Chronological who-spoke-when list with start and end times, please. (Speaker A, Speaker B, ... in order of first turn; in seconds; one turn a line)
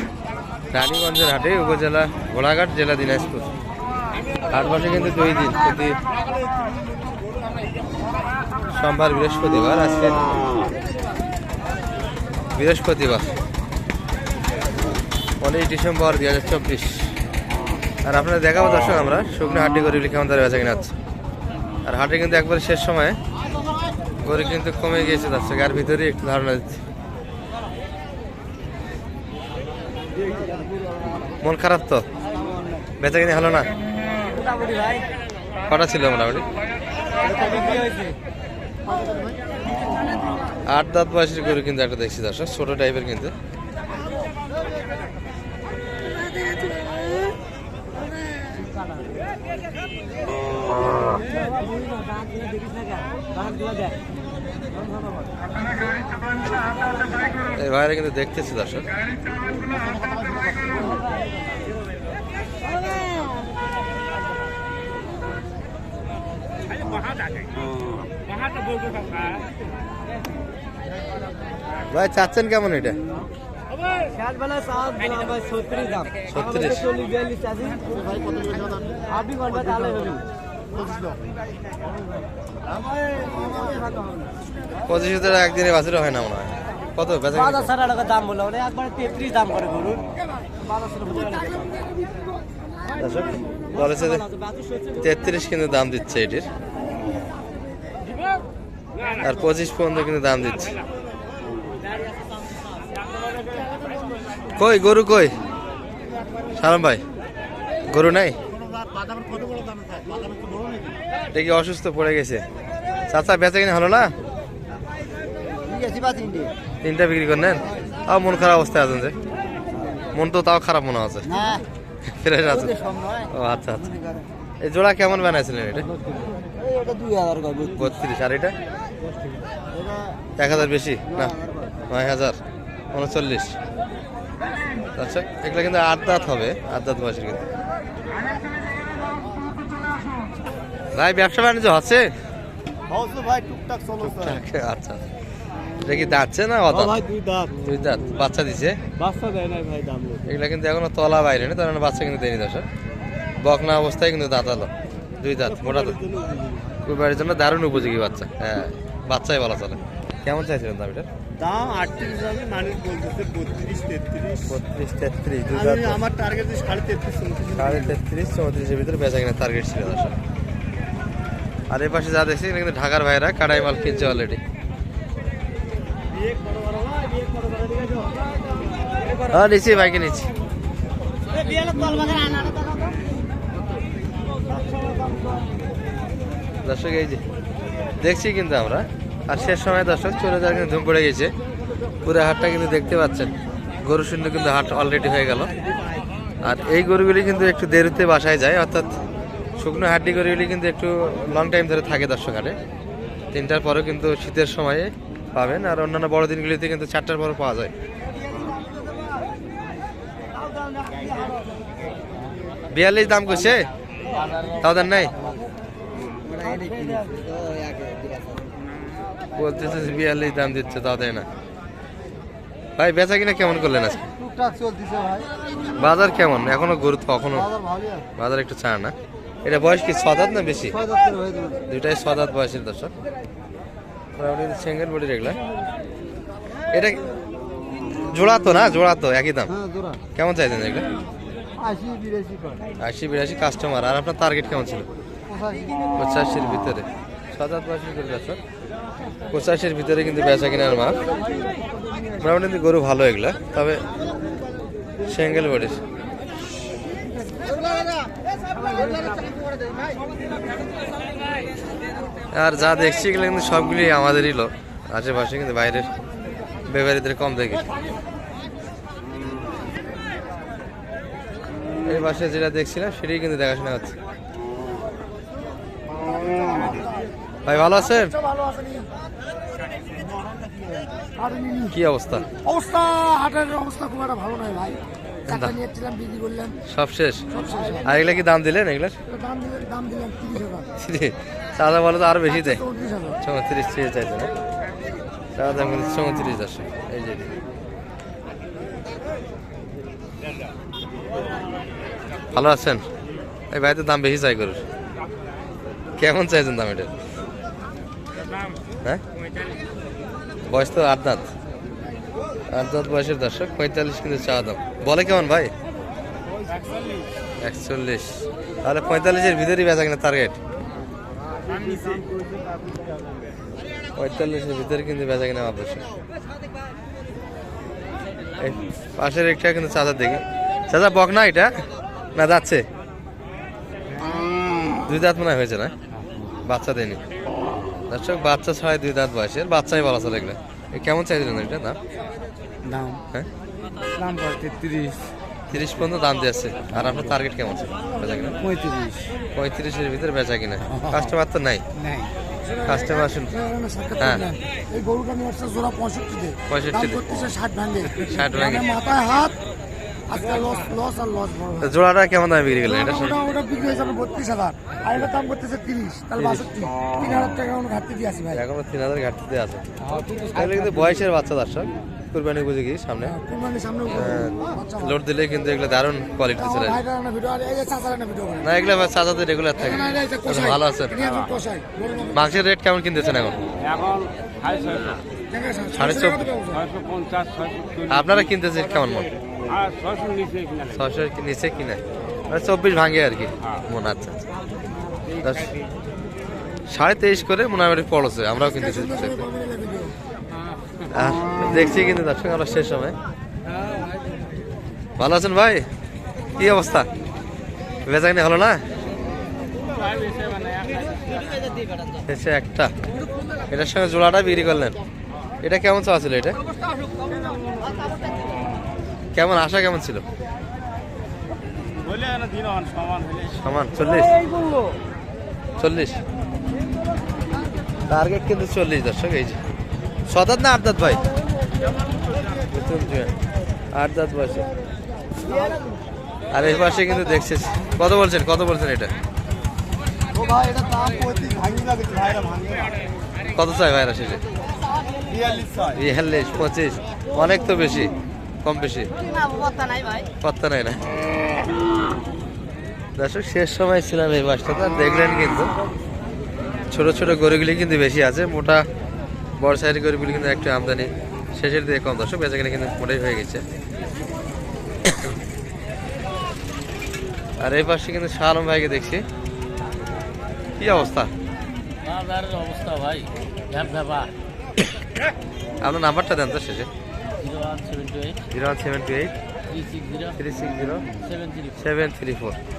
Speaker A: 0.7-3.5
Speaker A: 4.5-6.0
Speaker A: 8.7-10.3
Speaker A: 12.6-13.3
Speaker A: 15.4-17.2
Speaker A: 18.1-20.9
Speaker A: 21.9-23.2
Speaker A: 24.2-26.8
Speaker A: 31.4-32.0
Speaker A: 33.0-33.7
Speaker B: 34.3-35.0
Speaker A: 35.7-36.5
Speaker B: 37.2-38.2
Speaker A: 40.7-43.3
Speaker B: 46.4-47.3
Speaker B: 51.6-53.9
Speaker A: 57.5-58.9
Speaker B: 59.8-60.8
Speaker A: 71.9-73.0
Speaker B: 74.1-76.1
Speaker A: 76.3-77.0
Speaker B: 76.8-80.2
Speaker B: 83.5-83.8
Speaker A: 84.8-87.8
Speaker B: 87.6-90.1
Speaker B: 90.8-91.6
Speaker A: 93.0-94.3
Speaker A: 95.0-96.5
Speaker A: 99.2-100.7
Speaker A: 104.5-105.3
Speaker A: 106.5-107.0
Speaker A: 107.9-108.4
Speaker A: 111.3-112.4
Speaker A: 113.1-114.1
Speaker B: 115.6-116.5
Speaker A: 116.8-119.1
Speaker A: 120.1-121.5
Speaker B: 121.3-121.6
Speaker A: 122.1-122.8
Speaker B: 122.6-123.3
Speaker A: 123.3-123.9
Speaker B: 123.9-124.2
Speaker A: 124.6-125.9
Speaker B: 126.5-127.8
Speaker A: 127.6-128.5
Speaker B: 129.8-130.2
Speaker A: 130.4-131.4
Speaker B: 131.3-131.7
Speaker A: 131.9-132.4
Speaker A: 132.9-133.6
Speaker A: 135.0-137.4
Speaker A: 140.9-142.2
Speaker B: 142.9-144.2
Speaker A: 144.0-145.0
Speaker A: 145.8-147.0
Speaker B: 146.8-147.7
Speaker A: 147.6-148.8
Speaker B: 149.0-150.2
Speaker A: 150.2-152.7
Speaker A: 153.4-156.0
Speaker B: 155.7-156.7
Speaker A: 156.9-161.1
Speaker B: 161.4-164.5
Speaker A: 164.4-166.0
Speaker B: 165.7-167.7
Speaker A: 167.5-170.2
Speaker A: 171.7-174.4
Speaker B: 177.6-178.0
Speaker A: 179.2-180.3
Speaker B: 181.4-183.0
Speaker B: 184.7-185.3
Speaker A: 186.6-187.2
Speaker A: 188.0-191.3
Speaker A: 192.1-195.5
Speaker A: 196.4-198.9
Speaker A: 199.6-202.6
Speaker A: 203.3-207.7
Speaker A: 212.7-213.7
Speaker A: 214.6-215.2
Speaker B: 216.2-218.5
Speaker A: 219.3-221.3
Speaker A: 222.8-224.0
Speaker B: 224.2-225.3
Speaker A: 225.8-227.5
Speaker B: 227.6-228.0
Speaker A: 228.2-228.9
Speaker A: 229.4-230.8
Speaker B: 230.9-231.6
Speaker A: 231.7-232.9
Speaker A: 234.2-235.4
Speaker A: 236.7-237.0
Speaker A: 238.1-239.5
Speaker B: 239.6-240.0
Speaker A: 240.2-240.9
Speaker B: 241.6-242.7
Speaker A: 242.8-244.9
Speaker B: 245.3-245.8
Speaker A: 246.0-248.4
Speaker A: 249.3-251.0
Speaker A: 252.2-253.8
Speaker A: 255.0-255.8
Speaker B: 258.8-259.1
Speaker A: 262.3-265.9
Speaker A: 266.7-267.6
Speaker A: 271.8-273.9
Speaker C: 276.2-277.0
Speaker A: 277.4-278.2
Speaker C: 278.1-278.9
Speaker B: 280.4-280.7
Speaker C: 281.2-281.7
Speaker A: 281.7-282.3
Speaker C: 282.4-284.8
Speaker A: 285.3-285.6
Speaker C: 285.6-286.6
Speaker A: 286.6-289.0
Speaker C: 287.4-287.8
Speaker C: 289.1-290.6
Speaker A: 290.7-294.3
Speaker C: 292.6-293.1
Speaker A: 295.3-297.3
Speaker A: 302.3-302.9
Speaker A: 303.5-304.6
Speaker A: 306.0-306.9
Speaker A: 310.5-311.3
Speaker A: 312.5-315.5
Speaker B: 316.5-317.1
Speaker A: 317.4-320.4
Speaker B: 321.4-322.8
Speaker A: 323.9-325.8
Speaker A: 328.4-332.6
Speaker A: 334.9-335.7
Speaker A: 336.4-337.0
Speaker A: 337.9-341.8
Speaker B: 342.6-343.0
Speaker B: 343.9-345.1
Speaker A: 345.5-348.4
Speaker B: 348.4-349.1
Speaker A: 349.4-351.6
Speaker B: 351.8-352.1
Speaker A: 352.6-353.4
Speaker C: 353.4-356.4
Speaker A: 354.0-354.3
Speaker A: 356.5-357.4
Speaker C: 357.3-359.4
Speaker A: 357.9-358.8
Speaker C: 360.1-361.5
Speaker A: 361.5-363.4
Speaker C: 363.2-368.2
Speaker A: 364.8-365.1
Speaker A: 366.2-366.7
Speaker A: 368.2-369.6
Speaker A: 370.3-373.2
Speaker C: 373.2-373.9
Speaker A: 373.9-376.9
Speaker C: 374.4-374.7
Speaker C: 376.8-378.4
Speaker A: 378.4-381.1
Speaker C: 381.0-382.1
Speaker A: 382.1-383.5
Speaker C: 385.3-386.7
Speaker A: 385.7-386.4
Speaker A: 387.8-389.1
Speaker A: 390.6-394.2
Speaker A: 395.1-395.5
Speaker A: 396.7-399.3
Speaker C: 399.3-399.9
Speaker A: 400.9-402.9
Speaker A: 405.0-405.6
Speaker A: 406.4-406.9
Speaker A: 407.9-408.6
Speaker A: 412.1-412.7
Speaker A: 413.5-414.8
Speaker A: 415.4-416.4
Speaker A: 419.1-420.0
Speaker B: 421.9-422.5
Speaker A: 423.1-424.2
Speaker A: 425.6-426.0
Speaker A: 427.9-429.4
Speaker A: 430.1-431.0
Speaker A: 432.5-433.1
Speaker A: 433.7-434.4
Speaker A: 436.3-438.9
Speaker B: 440.1-442.8
Speaker A: 443.3-444.2
Speaker B: 445.1-445.8
Speaker A: 445.7-448.9
Speaker B: 449.2-450.1
Speaker A: 450.2-450.8
Speaker A: 452.9-455.5
Speaker A: 456.7-458.7
Speaker A: 459.4-463.4
Speaker A: 467.4-469.0
Speaker A: 470.6-471.1
Speaker D: 471.8-474.1
Speaker A: 475.6-476.7
Speaker D: 477.2-478.2
Speaker A: 478.3-479.1
Speaker D: 479.5-480.1
Speaker A: 480.1-480.9
Speaker D: 481.0-481.5
Speaker A: 481.5-482.4